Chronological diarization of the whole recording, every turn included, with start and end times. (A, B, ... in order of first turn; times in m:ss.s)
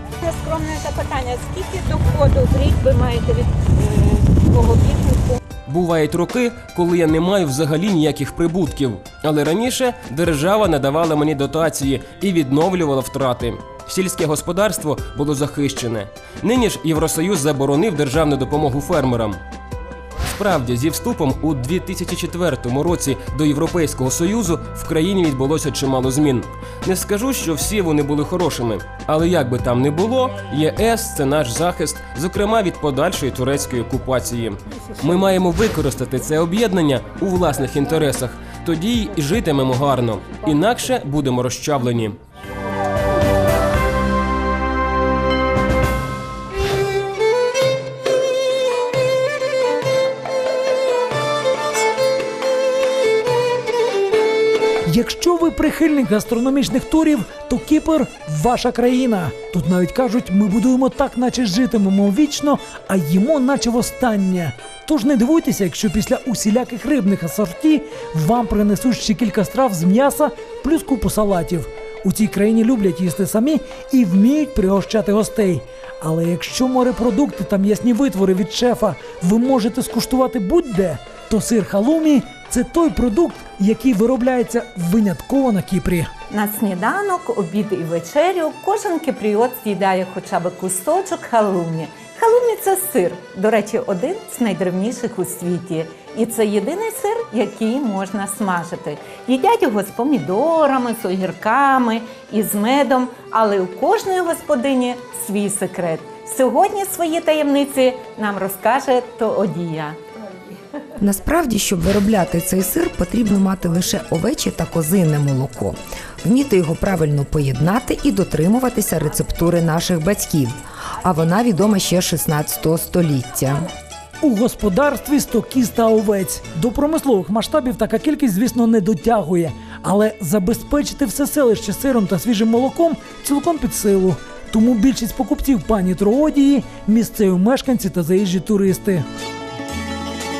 0:00.2-0:05.4 A
0:05.7-0:19.4 B
0:20.2-0:42.2 B
0:54.9-1:26.1 C
1:26.3-1:50.0 A
1:51.0-2:03.7 D
2:04.2-2:19.0 C